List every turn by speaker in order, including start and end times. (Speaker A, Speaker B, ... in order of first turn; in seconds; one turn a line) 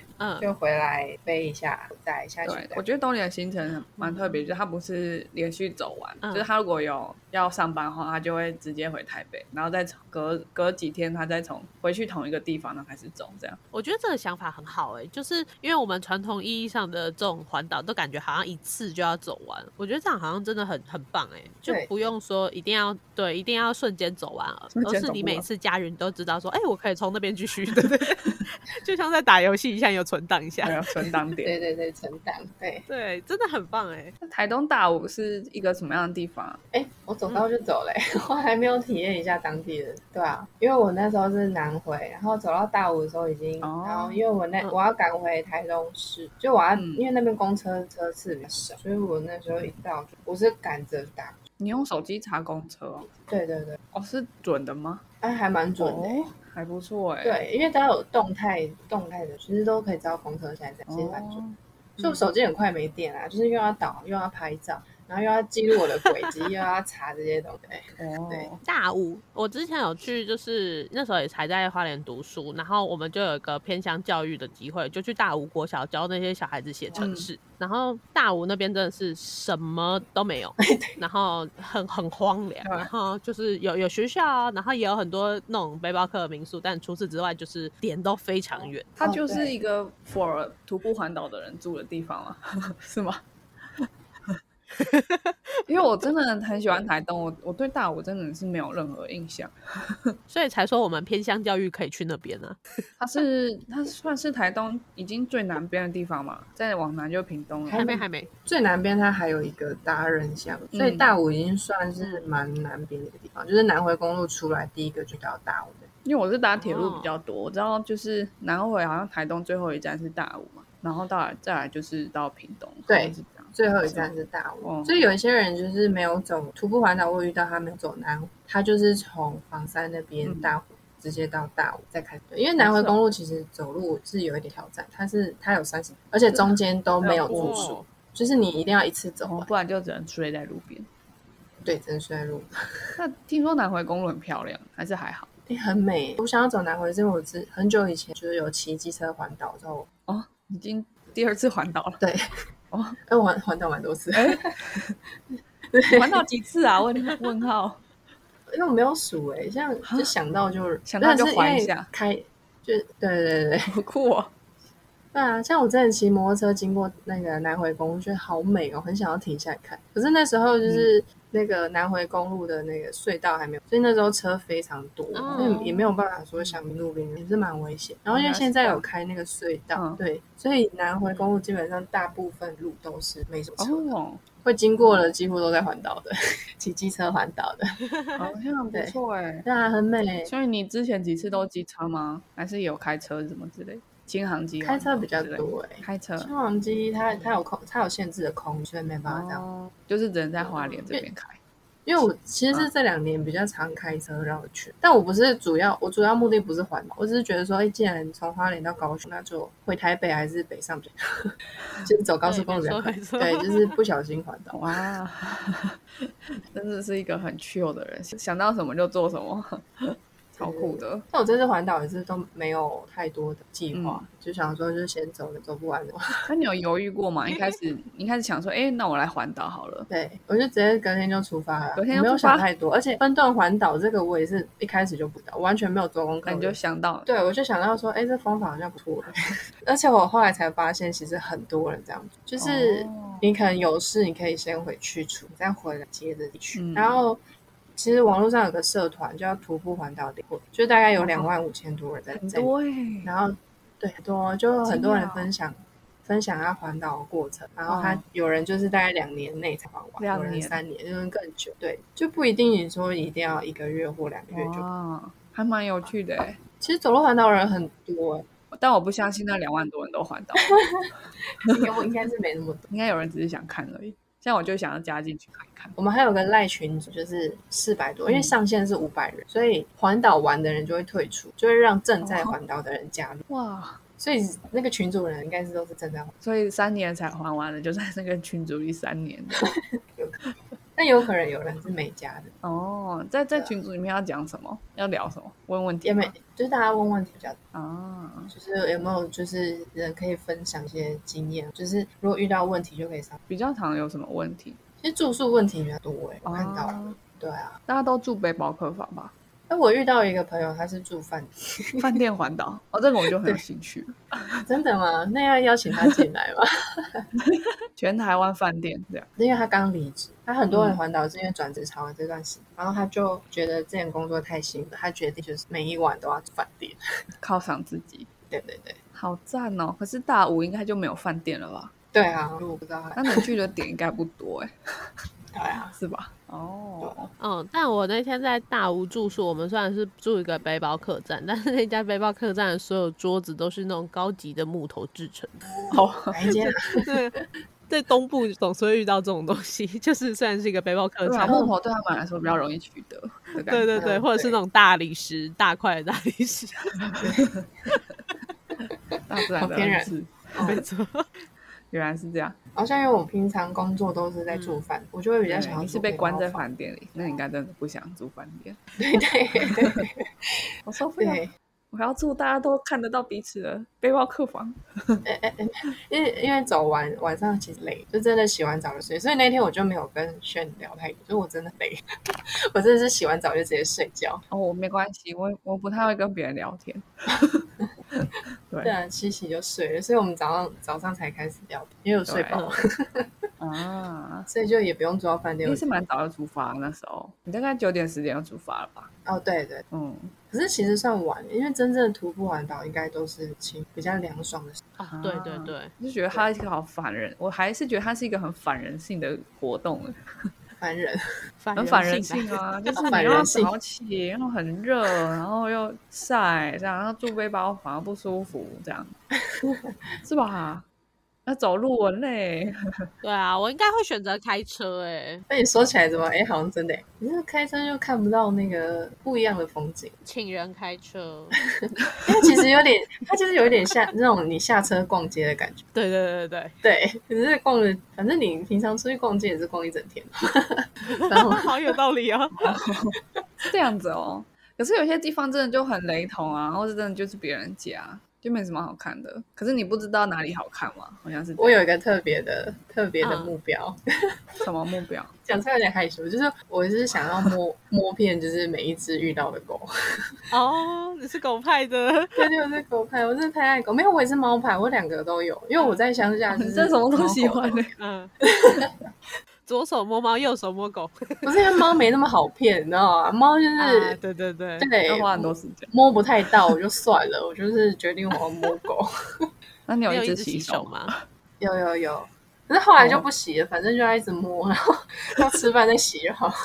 Speaker A: 0.2-0.5
Speaker B: 0.4-2.8
Speaker C: 2.5-13.6
Speaker A: 4.0-4.4
Speaker A: 6.2-6.5
Speaker A: 13.7-31.1
Speaker B: 21.7-22.1
Speaker C: 24.7-25.5
Speaker C: 30.6-31.6
Speaker B: 31.4-32.9
Speaker A: 32.9-34.1
Speaker C: 34.2-36.6
Speaker B: 36.7-51.4
Speaker C: 43.6-44.2
Speaker C: 46.8-47.0
Speaker C: 51.6-53.1
Speaker B: 53.1-53.8
Speaker C: 53.9-55.0
Speaker B: 55.2-56.3
Speaker C: 55.8-57.4
Speaker B: 57.2-61.4
Speaker C: 60.9-61.6
Speaker B: 62.0-68.5
Speaker A: 66.1-66.3
Speaker C: 68.0-68.6
Speaker A: 68.6-88.9
Speaker C: 77.0-77.3
Speaker B: 80.6-81.0
Speaker C: 82.6-82.9
Speaker B: 89.0-89.5
Speaker C: 89.0-93.2
Speaker C: 93.8-94.4
Speaker A: 94.8-95.3
Speaker C: 95.7-100.1
Speaker A: 100.3-102.6
Speaker C: 103.0-107.9
Speaker B: 107.7-115.9
Speaker A: 107.8-108.3
Speaker C: 110.7-111.1
Speaker A: 112.0-112.3
Speaker C: 116.0-124.1
Speaker A: 116.6-117.1
Speaker B: 122.9-139.5
Speaker C: 124.6-125.0
Speaker C: 130.2-130.5
Speaker C: 132.6-133.0
Speaker C: 136.3-137.8
Speaker A: 137.3-137.8
Speaker C: 139.2-140.9
Speaker B: 141.7-142.9
Speaker C: 143.0-145.3
Speaker B: 145.5-149.9
Speaker C: 150.1-152.0
Speaker C: 152.7-153.0
Speaker B: 153.1-154.5
Speaker C: 154.1-155.0
Speaker B: 155.3-156.2
Speaker C: 155.9-157.8
Speaker B: 158.5-163.7
Speaker C: 159.8-160.1
Speaker C: 160.8-161.9
Speaker C: 163.7-164.3
Speaker B: 165.1-187.7
Speaker C: 170.7-170.9
Speaker A: 175.2-175.7
Speaker C: 175.3-175.7
Speaker C: 178.1-178.8
Speaker C: 179.8-180.0
Speaker C: 183.6-184.2
Speaker C: 188.2-189.5
Speaker B: 188.7-190.3
Speaker C: 190.3-196.3
Speaker B: 194.6-199.4
Speaker C: 199.1-201.4
Speaker B: 200.4-201.1
Speaker B: 201.9-214.6
Speaker A: 212.2-213.8
Speaker C: 214.5-221.1
Speaker B: 220.4-226.3
Speaker C: 223.7-224.1
Speaker C: 226.3-229.9
Speaker B: 229.9-247.2
Speaker C: 231.8-232.5
Speaker C: 236.3-237.1
Speaker C: 242.4-243.3
Speaker C: 246.6-247.0
Speaker B: 247.8-252.5
Speaker C: 251.0-251.3
Speaker C: 252.1-253.1
Speaker B: 253.0-264.6
Speaker C: 254.7-255.3
Speaker C: 257.7-258.0
Speaker C: 260.0-260.6
Speaker C: 264.3-266.4
Speaker B: 266.6-268.3
Speaker C: 268.5-270.6
Speaker B: 271.4-272.6
Speaker C: 271.4-271.7
Speaker C: 272.7-275.8
Speaker B: 275.8-283.2
Speaker C: 278.1-278.4
Speaker C: 282.0-282.4
Speaker C: 283.3-283.8
Speaker B: 284.0-286.1
Speaker C: 286.2-289.5
Speaker B: 289.4-290.2
Speaker B: 290.8-292.3
Speaker C: 292.4-296.1
Speaker B: 295.8-297.4
Speaker C: 297.5-298.3
Speaker B: 298.3-303.2
Speaker C: 303.3-304.6
Speaker B: 304.8-307.5
Speaker C: 306.2-307.0
Speaker C: 307.7-309.1
Speaker B: 309.5-312.0
Speaker C: 311.8-314.4
Speaker B: 314.5-317.1
Speaker C: 317.3-319.1
Speaker B: 319.2-326.8
Speaker C: 320.5-320.8
Speaker C: 327.2-328.1
Speaker B: 328.3-328.8
Speaker C: 328.9-331.7
Speaker B: 331.9-333.3
Speaker C: 333.0-334.5
Speaker B: 335.3-335.8
Speaker C: 335.8-337.1
Speaker A: 337.2-345.6
Speaker B: 345.6-346.8
Speaker C: 345.7-346.2
Speaker A: 346.3-351.4
Speaker C: 351.1-353.7
Speaker A: 353.5-356.9
Speaker B: 353.7-354.4
Speaker C: 356.8-357.5
Speaker B: 357.0-357.4
Speaker B: 358.9-360.6
Speaker C: 359.1-360.6
Speaker A: 360.4-361.2
Speaker C: 361.7-362.4
Speaker B: 362.6-366.4
Speaker A: 364.3-364.6
Speaker C: 365.3-368.6
Speaker B: 368.8-370.4
Speaker C: 369.4-369.8
Speaker C: 370.7-375.0
Speaker B: 371.0-371.3
Speaker B: 375.1-381.8
Speaker B: 382.5-384.2
Speaker C: 384.3-388.7
Speaker B: 388.6-393.1
Speaker C: 392.1-392.4
Speaker A: 392.3-392.6
Speaker C: 393.4-394.3
Speaker B: 394.3-395.7
Speaker C: 395.4-398.9
Speaker B: 399.1-399.6
Speaker C: 399.7-400.1
Speaker B: 400.3-404.6
Speaker A: 404.8-405.7
Speaker C: 404.9-410.0
Speaker B: 410.6-411.0
Speaker A: 411.4-413.2
Speaker C: 411.6-419.0
Speaker B: 412.8-413.5
Speaker B: 419.3-419.8
Speaker C: 420.0-420.6
Speaker C: 421.3-422.6
Speaker A: 423.0-425.2
Speaker B: 425.3-429.9
Speaker A: 430.0-431.4
Speaker B: 431.6-435.6
Speaker A: 435.8-436.6
Speaker B: 436.6-441.5
Speaker A: 440.9-442.4
Speaker C: 442.4-443.0
Speaker C: 443.5-451.6
Speaker B: 451.4-453.8
Speaker A: 453.0-453.3
Speaker C: 454.4-455.1
Speaker B: 455.2-459.7
Speaker A: 460.3-462.3
Speaker B: 462.2-467.7
Speaker A: 465.6-465.8
Speaker C: 466.3-467.7
Speaker A: 467.8-468.1
Speaker B: 468.3-468.7
Speaker A: 469.5-471.3
Speaker B: 471.2-474.0
Speaker A: 473.6-474.7
Speaker B: 474.6-478.9
Speaker C: 474.9-475.7
Speaker C: 479.7-481.0
Speaker A: 479.9-480.9
Speaker B: 481.4-486.4
Speaker C: 482.8-483.1